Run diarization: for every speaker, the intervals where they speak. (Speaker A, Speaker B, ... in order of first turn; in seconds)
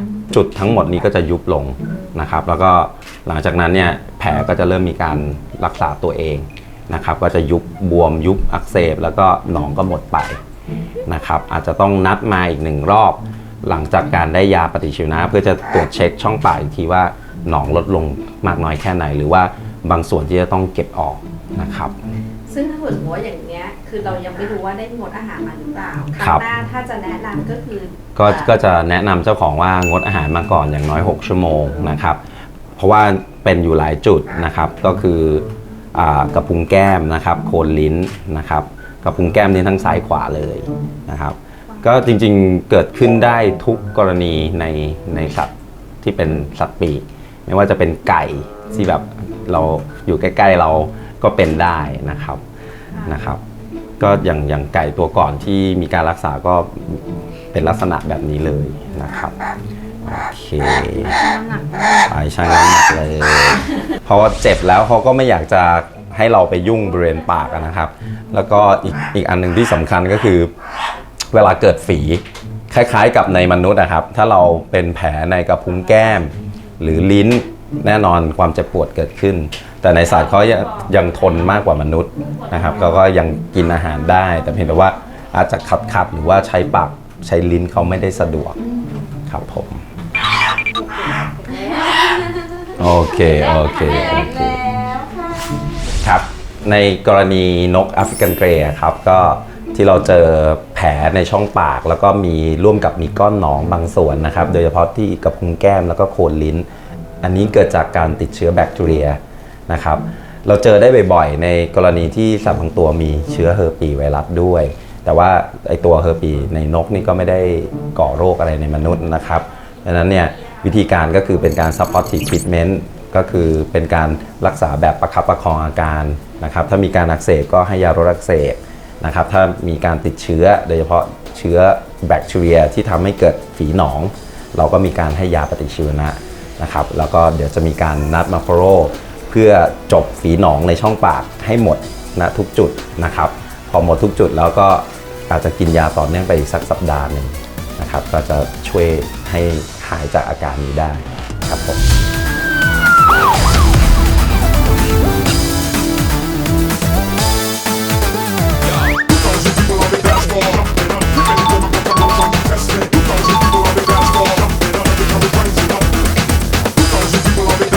Speaker A: 0.3-10.4, 11.1-21.9, 26.2-26.4, 28.1-32.2, 32.8-52.4, 53.0-53.4, 54.0-59.4, 60.0-61.2, 61.9-70.5, 71.3-88.6, 89.2-89.8, 92.7-94.7, 95.9-106.7, 107.2-151.8
Speaker B: 22.5-28.6
Speaker C: 61.1-62.1, 88.8-89.1, 91.0-92.4, 93.3-95.6